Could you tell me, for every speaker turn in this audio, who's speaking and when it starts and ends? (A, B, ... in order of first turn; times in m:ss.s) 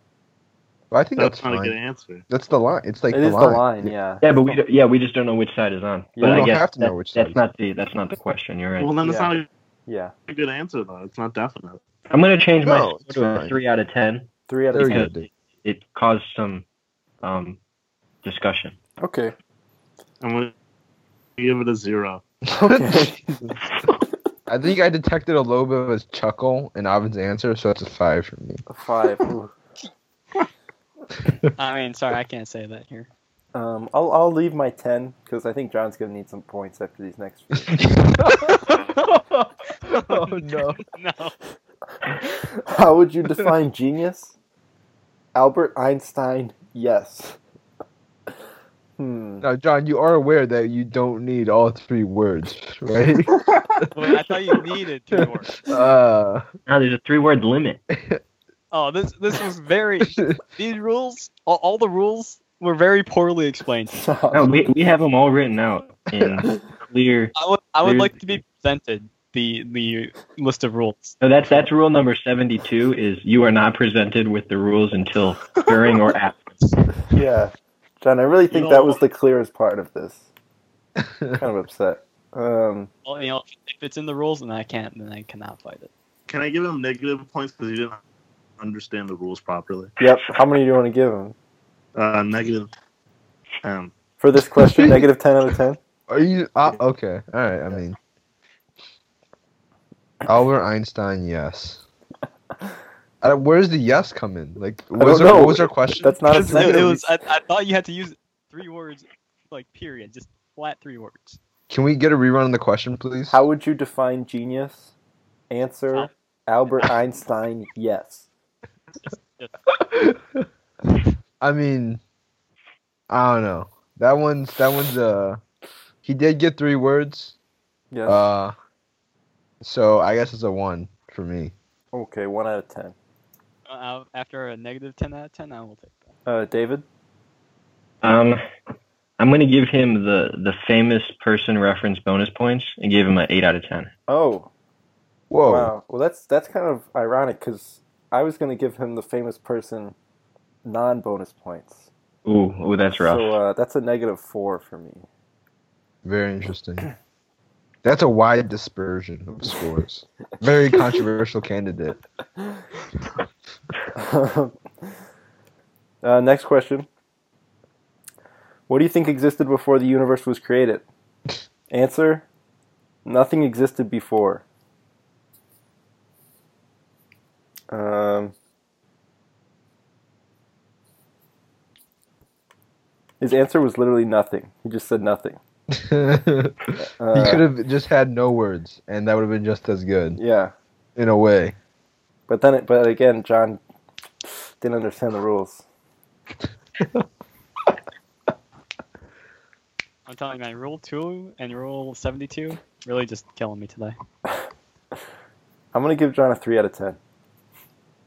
0:00.9-0:01.8 A
0:01.2-0:02.2 B
0:02.3-0:03.9 A
0:03.1-0:04.6 C
0:04.2-0:09.0 D
0:06.2-0:06.5 C
0:06.2-0:07.4 A
0:08.8-0:09.5 B
0:09.0-0:09.3 C
0:09.9-0:10.1 C
0:10.3-0:11.8 B
0:12.1-0:16.6 D
0:12.6-0:13.6 A
0:14.5-0:15.1 C
0:14.7-0:15.3 A
0:17.2-0:17.6 D
0:18.2-0:18.8 D
0:19.0-0:19.3 C
0:20.2-0:20.5 B
0:21.4-0:22.2 B
0:22.5-0:23.2 C
0:22.6-0:23.6 A
0:24.5-0:28.6 A
0:28.7-0:29.6 C
0:31.6-0:33.1 E
0:33.5-0:37.9 C
0:37.7-0:40.8 A
0:38.5-0:38.9 E
0:39.8-0:41.4 E
0:42.6-0:44.3 C
0:45.4-0:47.4 C
0:49.0-0:49.4 C
0:49.4-0:54.1 A
0:53.9-0:55.7 E
0:55.1-0:56.5 A
0:56.7-0:57.8 D
0:57.9-0:58.2 A
0:58.7-1:04.1 E
1:00.0-1:00.4 A
1:03.9-1:04.5 C
1:04.3-1:08.3 D
1:07.4-1:11.2 E
1:11.2-1:16.7 D
1:17.1-1:20.3 C
1:18.5-1:19.0 B
1:21.0-1:21.4 A
1:21.4-1:22.9 C
1:23.0-1:25.9 E
1:26.3-1:28.0 B
1:28.6-1:30.0 B
1:30.0-1:31.4 C
1:32.0-1:32.7 B
1:33.6-1:33.9 B
1:34.2-1:35.8 C
1:34.6-1:35.1 A
1:36.1-1:38.0 A
1:40.2-1:41.8 A
1:43.2-1:46.9 A
1:45.0-1:47.1 C
1:46.2-1:51.4 E
1:51.7-1:53.4 A
1:53.3-1:54.9 C
1:55.5-1:58.3 C
1:59.0-1:59.5 E
1:59.7-2:00.4 A
2:01.4-2:02.0 A
2:03.1-2:05.4 A
2:06.0-2:07.4 A
2:07.9-2:08.2 C
2:08.1-2:08.5 A
2:09.6-2:11.5 A
2:11.9-2:13.0 C
2:13.7-2:16.1 E
2:16.3-2:16.8 C
2:18.0-2:18.4 D
2:19.2-2:23.9 D
2:24.1-2:24.5 C
2:25.3-2:25.7 A
2:25.5-2:30.0 C
2:30.6-2:31.9 C
2:32.2-2:33.4 D
2:33.0-2:35.1 C
2:36.0-2:36.9 A
2:37.8-2:42.0 A
2:44.0-2:44.6 C
2:46.0-2:46.9 C
2:48.7-2:50.8 C
2:51.7-2:52.2 C
2:53.0-2:54.4 C
2:57.7-2:58.3 C
3:03.2-3:05.4 C
3:05.7-3:10.2 A
3:06.8-3:07.4 C
3:10.2-3:10.5 C
3:11.0-3:11.6 A
3:12.3-3:13.6 C
3:14.2-3:15.6 C
3:20.1-3:24.0 E
3:25.7-3:27.0 C